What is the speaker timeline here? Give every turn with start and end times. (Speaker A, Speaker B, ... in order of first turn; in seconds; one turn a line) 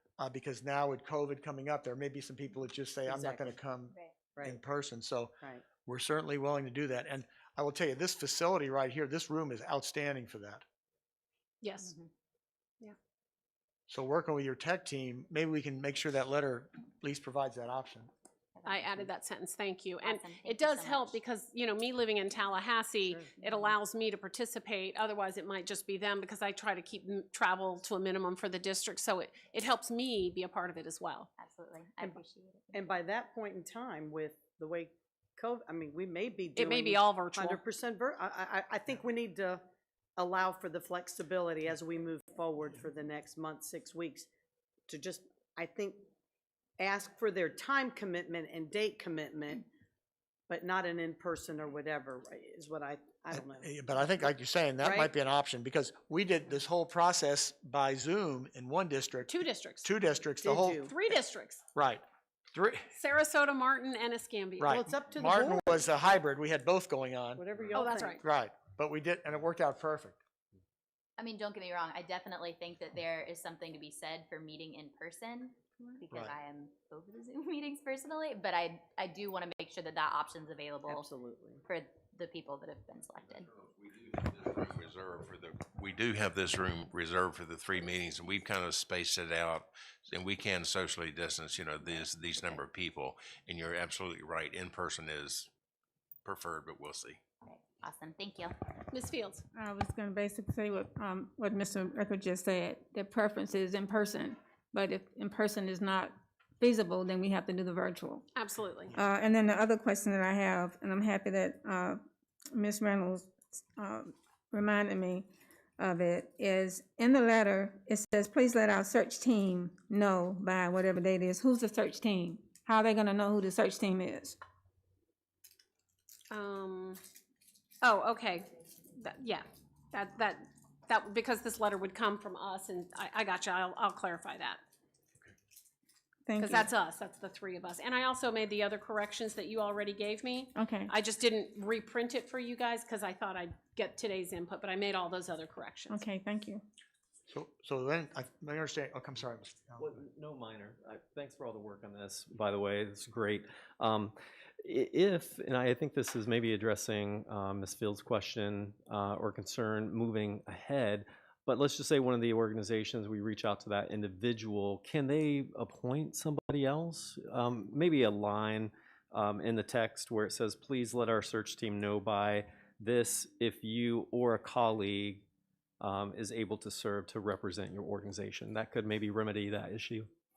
Speaker A: 0.2-5.3
Speaker B: 3.1-3.6
Speaker A: 5.8-10.6
Speaker C: 11.6-11.9
Speaker A: 13.9-18.1
Speaker C: 18.6-31.3
Speaker D: 20.0-21.1
Speaker B: 23.0-23.7
Speaker D: 31.4-32.4
Speaker B: 32.0-39.6
Speaker C: 36.5-37.6
Speaker B: 40.2-44.3
Speaker B: 44.9-46.0
Speaker B: 46.8-49.6
Speaker B: 50.5-53.7
Speaker A: 53.3-60.8
Speaker B: 54.8-55.1
Speaker C: 59.3-59.9
Speaker B: 60.4-60.9
Speaker C: 60.8-61.6
Speaker A: 61.7-62.0
Speaker A: 62.5-62.9
Speaker C: 62.9-64.8
Speaker A: 64.6-67.4
Speaker B: 64.7-65.9
Speaker B: 67.3-68.2
Speaker C: 67.7-68.2
Speaker A: 68.2-70.2
Speaker D: 71.2-80.8
Speaker A: 76.1-76.3
Speaker B: 80.8-81.6
Speaker D: 81.7-83.4
Speaker E: 83.3-95.5
Speaker E: 96.2-97.2
Speaker D: 97.7-98.5
Speaker C: 98.9-99.4
Speaker F: 99.5-108.2
Speaker C: 108.3-108.9
Speaker F: 109.0-112.0
Speaker F: 112.5-115.2
Speaker F: 115.8-124.3
Speaker C: 126.3-127.0
Speaker C: 127.8-128.4
Speaker C: 129.0-134.6
Speaker F: 136.3-136.7
Speaker C: 136.4-146.0
Speaker F: 140.6-140.9
Speaker F: 145.9-146.6
Speaker A: 147.3-149.9
Speaker G: 149.8-175.2
Speaker G: 175.8-180.1